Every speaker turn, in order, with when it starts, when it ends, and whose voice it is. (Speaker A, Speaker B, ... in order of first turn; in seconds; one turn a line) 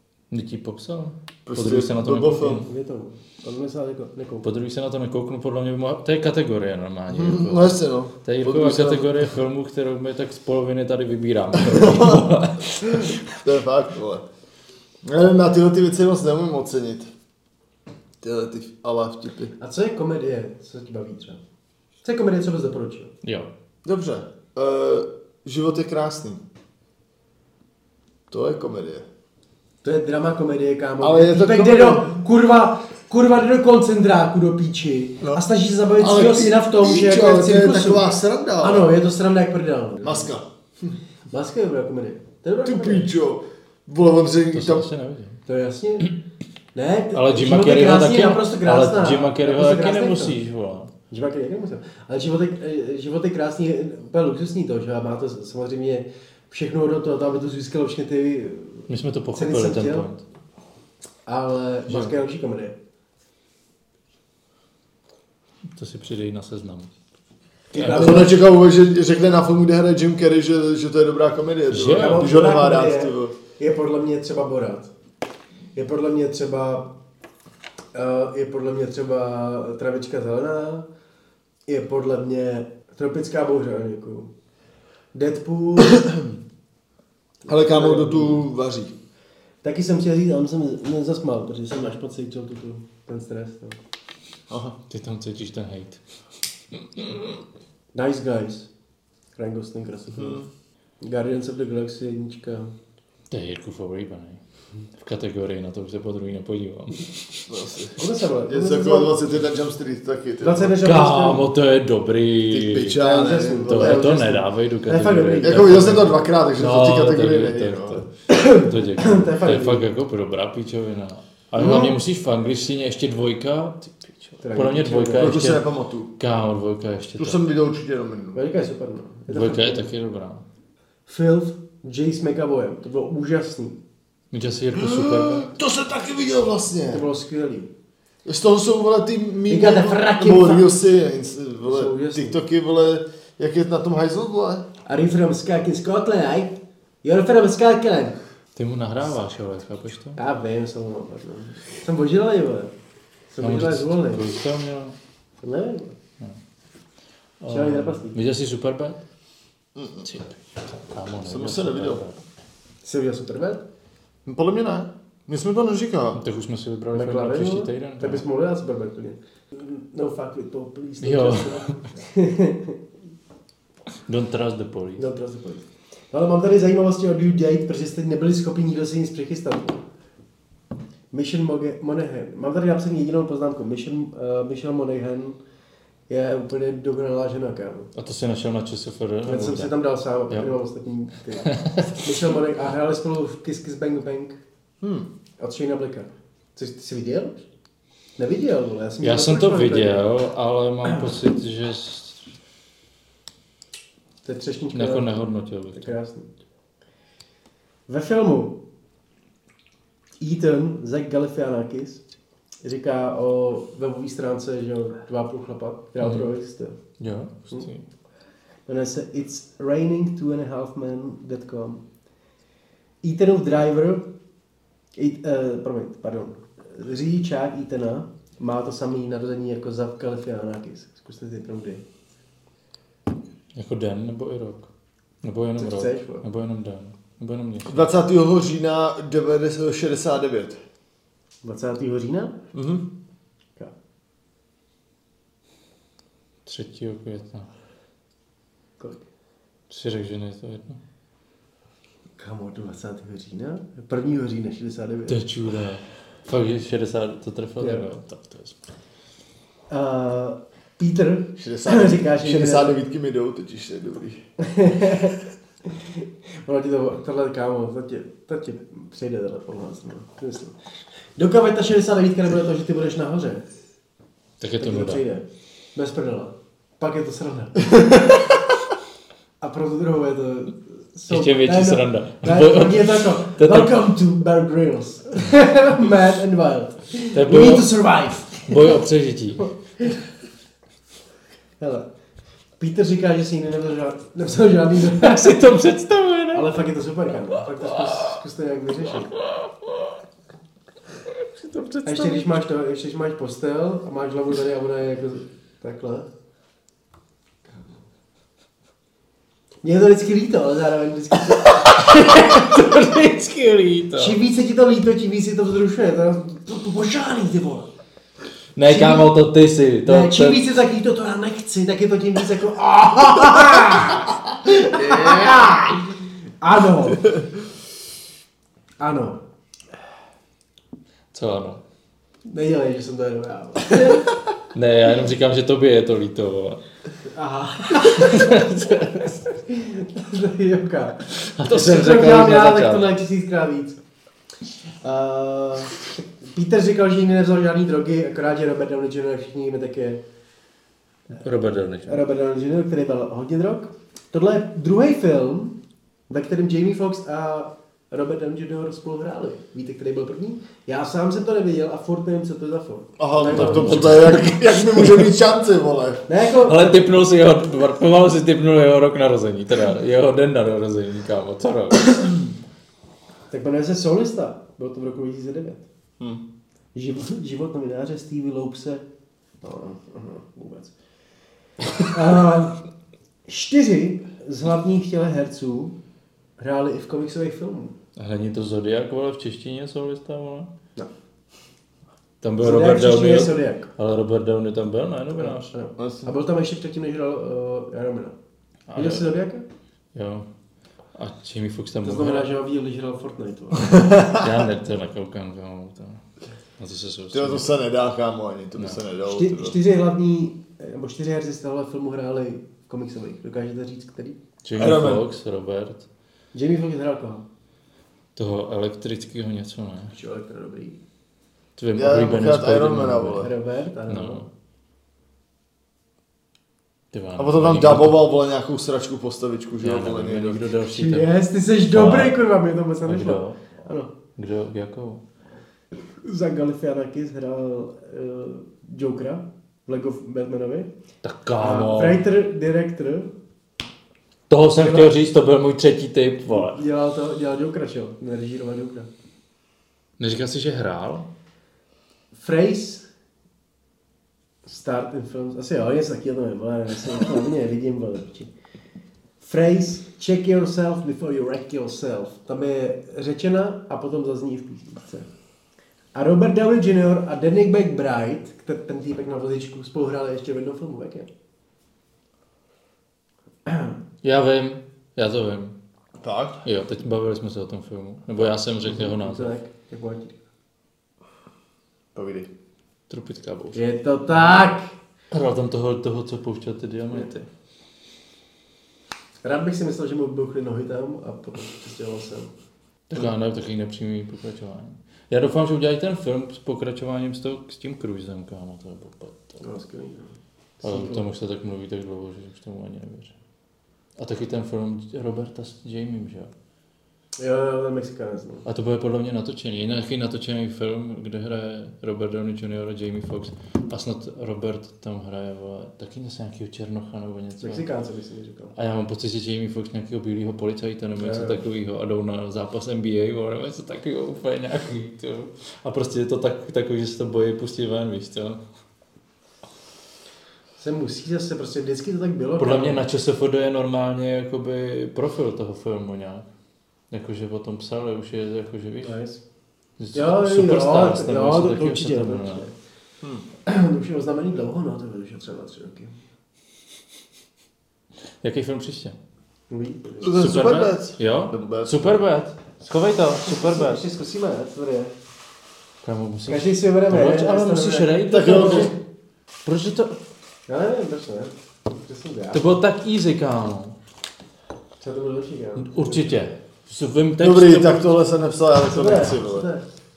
Speaker A: 0.3-2.7
Speaker B: 1.5-2.7
Speaker C: 2.6-4.5
Speaker A: 4.4-13.3
Speaker B: 7.1-9.3
Speaker B: 11.7-12.2
Speaker B: 12.8-14.2
Speaker B: 15.0-17.1
Speaker B: 18.2-19.5
Speaker C: 19.6-21.4
Speaker C: 22.0-23.1
Speaker A: 23.2-23.5
Speaker B: 23.9-26.4
Speaker B: 28.3-29.1
Speaker C: 29.8-38.1
Speaker B: 31.0-32.2
Speaker B: 36.0-39.0
Speaker C: 38.6-40.3
Speaker B: 40.0-40.5
Speaker C: 41.3-43.1
Speaker B: 42.6-44.9
Speaker A: 44.5-45.4
Speaker C: 45.5-46.1
Speaker C: 46.8-50.4
Speaker A: 47.1-50.9
Speaker C: 51.1-60.1
Speaker A: 58.9-60.2
Speaker C: 61.3-62.8
Speaker A: 65.8-66.9
Speaker C: 67.7-68.4
Speaker B: 67.8-73.4
Speaker A: 67.8-68.2
Speaker A: 71.7-72.3
Speaker C: 71.9-74.9
Speaker C: 75.8-77.0
Speaker C: 77.9-80.9
Speaker C: 81.7-84.3
Speaker C: 85.1-86.0
Speaker B: 85.8-86.3
Speaker C: 87.5-88.5
Speaker B: 87.5-88.9
Speaker C: 89.6-93.8
Speaker B: 94.5-94.8
Speaker A: 94.9-96.0
Speaker C: 97.9-98.7
Speaker C: 99.4-100.4
Speaker B: 100.1-100.5
Speaker C: 101.0-102.7
Speaker A: 103.3-104.4
Speaker A: 105.0-107.2
Speaker B: 107.5-110.8
Speaker C: 108.0-109.3
Speaker C: 110.4-111.5
Speaker A: 110.8-113.0
Speaker B: 112.5-114.1
Speaker C: 113.0-115.7
Speaker A: 113.7-125.7
Speaker B: 115.4-118.0
Speaker C: 118.3-119.8
Speaker C: 121.6-121.9
Speaker C: 124.4-125.4
Speaker B: 125.2-126.2
Speaker A: 126.2-127.4
Speaker B: 127.2-128.4
Speaker C: 128.3-129.9
Speaker A: 129.3-130.4
Speaker C: 131.1-133.8
Speaker A: 134.3-135.5
Speaker B: 134.7-137.1
Speaker C: 136.9-137.7
Speaker B: 138.2-144.7
Speaker C: 139.5-140.7
Speaker C: 141.6-142.4
Speaker C: 144.9-148.2
Speaker A: 148.6-150.2
Speaker C: 150.2-152.7
Speaker C: 153.3-154.3
Speaker A: 153.4-155.0
Speaker C: 155.4-156.0
Speaker A: 157.4-159.0
Speaker C: 157.5-158.2
Speaker B: 159.8-160.1
Speaker A: 160.1-160.4
Speaker A: 160.9-162.2
Speaker B: 161.2-162.0
Speaker C: 162.8-163.6
Speaker B: 164.3-166.2
Speaker A: 166.2-168.2
Speaker C: 166.9-172.8
Speaker A: 171.0-171.8
Speaker A: 174.1-175.0
Speaker C: 175.0-179.8
Speaker C: 181.1-185.4
Speaker C: 186.1-187.9
Speaker A: 188.0-189.7
Speaker C: 189.3-194.4
Speaker A: 191.5-192.1
Speaker B: 194.8-195.1
Speaker C: 195.4-197.4
Speaker C: 198.2-200.0
Speaker A: 199.0-202.2
Speaker C: 204.2-205.1
Speaker A: 204.7-205.9
Speaker C: 205.7-206.3
Speaker C: 207.9-208.6
Speaker C: 210.2-212.0
Speaker C: 212.6-216.8
Speaker A: 216.0-216.3
Speaker A: 217.0-217.8
Speaker C: 218.7-221.8
Speaker C: 223.0-224.1
Speaker C: 225.0-231.8
Speaker A: 233.6-234.7
Speaker A: 235.2-237.8
Speaker C: 235.6-236.2
Speaker B: 237.7-240.6
Speaker C: 241.4-242.4
Speaker B: 242.5-242.8
Speaker A: 246.5-247.5
Speaker A: 249.7-250.8
Speaker C: 252.2-255.2
Speaker A: 255.1-258.6
Speaker C: 259.7-262.8
Speaker B: 261.4-264.2
Speaker C: 264.4-270.6
Speaker C: 271.2-273.5
Speaker A: 274.4-275.0
Speaker C: 274.6-278.1
Speaker C: 279.4-288.8
Speaker A: 281.1-283.7
Speaker A: 287.1-287.8
Speaker A: 288.4-289.4
Speaker C: 291.6-291.9
Speaker C: 292.6-295.5
Speaker A: 295.0-296.6
Speaker C: 296.3-299.1
Speaker A: 297.5-298.2
Speaker A: 301.2-302.4
Speaker C: 301.9-306.1
Speaker C: 309.6-312.6
Speaker A: 311.4-314.2
Speaker C: 314.0-317.7
Speaker A: 318.6-320.4
Speaker C: 318.6-319.2
Speaker C: 319.9-327.1
Speaker B: 324.7-325.7
Speaker C: 328.8-329.2
Speaker A: 331.1-331.6
Speaker C: 332.3-334.0
Speaker A: 334.5-336.6
Speaker C: 337.1-338.5
Speaker A: 337.8-339.2
Speaker C: 339.4-343.8
Speaker A: 341.2-342.9
Speaker C: 344.8-350.0
Speaker A: 351.1-352.0
Speaker C: 351.9-355.6
Speaker C: 356.1-364.0
Speaker B: 363.0-366.0
Speaker A: 363.3-364.4
Speaker C: 366.1-366.9
Speaker A: 366.4-372.2
Speaker C: 373.3-375.6
Speaker C: 376.8-378.9
Speaker C: 379.4-380.7
Speaker C: 381.9-382.6
Speaker C: 383.3-385.8
Speaker C: 386.4-387.8
Speaker A: 388.0-390.5
Speaker A: 392.2-395.5
Speaker C: 392.4-393.7
Speaker C: 395.2-398.2
Speaker B: 395.8-396.1
Speaker A: 398.7-399.1
Speaker C: 398.8-399.4
Speaker A: 399.9-400.3
Speaker A: 400.9-402.3
Speaker C: 401.8-403.8
Speaker A: 404.1-406.0
Speaker A: 406.6-407.5
Speaker B: 407.1-409.6
Speaker C: 409.1-414.2
Speaker A: 414.4-415.9
Speaker B: 414.6-415.0
Speaker C: 416.3-417.2
Speaker A: 418.2-419.9
Speaker C: 419.9-420.8
Speaker A: 421.6-423.3
Speaker B: 421.8-423.3
Speaker C: 423.2-424.3
Speaker A: 423.9-424.3
Speaker A: 426.9-428.0
Speaker B: 427.2-430.4
Speaker A: 429.6-431.1
Speaker C: 430.7-433.9
Speaker A: 431.7-432.2
Speaker A: 432.8-433.4
Speaker A: 434.2-435.0
Speaker C: 436.0-440.7
Speaker A: 441.0-442.1
Speaker C: 441.4-443.1
Speaker A: 444.3-446.6
Speaker C: 444.6-444.9
Speaker C: 446.3-448.9
Speaker A: 450.0-451.1
Speaker C: 452.1-452.9
Speaker C: 454.4-458.3
Speaker C: 459.2-465.1
Speaker C: 465.9-471.1
Speaker C: 473.5-473.8
Speaker A: 474.0-475.6
Speaker B: 476.0-476.4
Speaker A: 476.4-479.3
Speaker C: 478.6-480.2
Speaker B: 481.9-482.3
Speaker A: 482.9-483.6
Speaker C: 483.6-484.7
Speaker A: 485.1-487.3
Speaker C: 489.2-492.3
Speaker A: 492.9-499.4
Speaker C: 499.4-501.1
Speaker A: 500.6-503.1
Speaker A: 504.0-506.3
Speaker C: 507.2-508.4
Speaker A: 508.5-517.6
Speaker C: 517.4-518.5
Speaker A: 518.6-528.4
Speaker C: 521.0-521.4
Speaker C: 530.6-532.8
Speaker A: 532.4-536.2
Speaker A: 536.9-539.0
Speaker C: 538.8-539.2
Speaker A: 539.8-542.5
Speaker C: 539.9-542.6
Speaker C: 543.5-546.0
Speaker A: 548.2-549.0
Speaker C: 549.5-550.0
Speaker B: 550.0-552.0
Speaker A: 550.1-553.8
Speaker C: 553.2-554.9
Speaker A: 555.8-558.8
Speaker C: 556.3-558.7
Speaker B: 558.1-558.7
Speaker A: 559.5-560.0
Speaker C: 560.5-562.4
Speaker A: 562.3-563.8
Speaker C: 564.8-566.2
Speaker A: 565.6-568.0
Speaker B: 567.2-569.5
Speaker C: 568.6-569.7